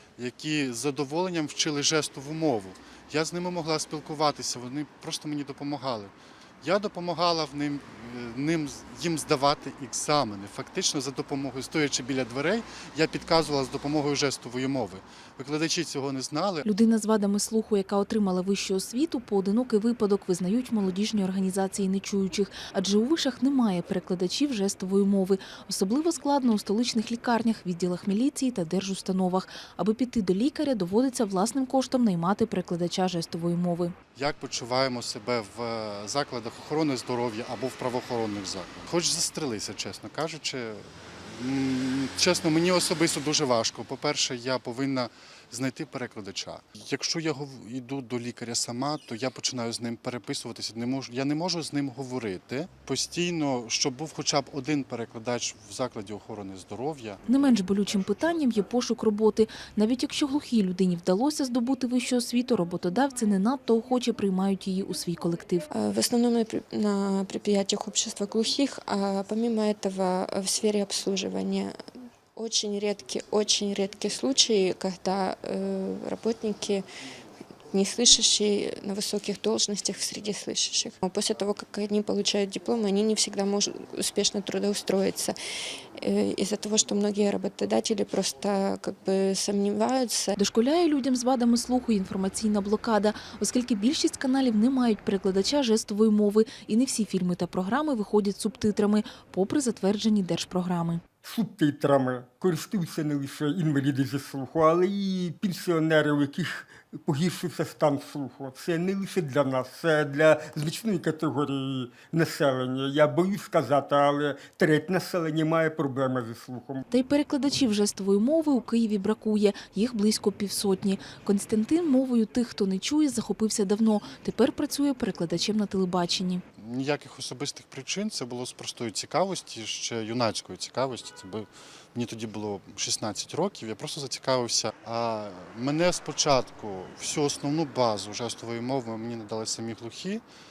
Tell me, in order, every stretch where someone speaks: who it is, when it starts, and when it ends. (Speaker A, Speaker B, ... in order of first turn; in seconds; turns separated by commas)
Speaker A: 0.2-16.7, Speaker B: 16.6-34.0, Speaker A: 34.1-57.2, Speaker B: 57.3-65.7, Speaker C: 65.7-71.7, Speaker C: 72.3-76.9, Speaker C: 77.7-85.3, Speaker C: 86.0-90.4, Speaker B: 90.4-101.0, Speaker D: 101.2-116.8, Speaker B: 116.9-126.4, Speaker A: 126.6-140.2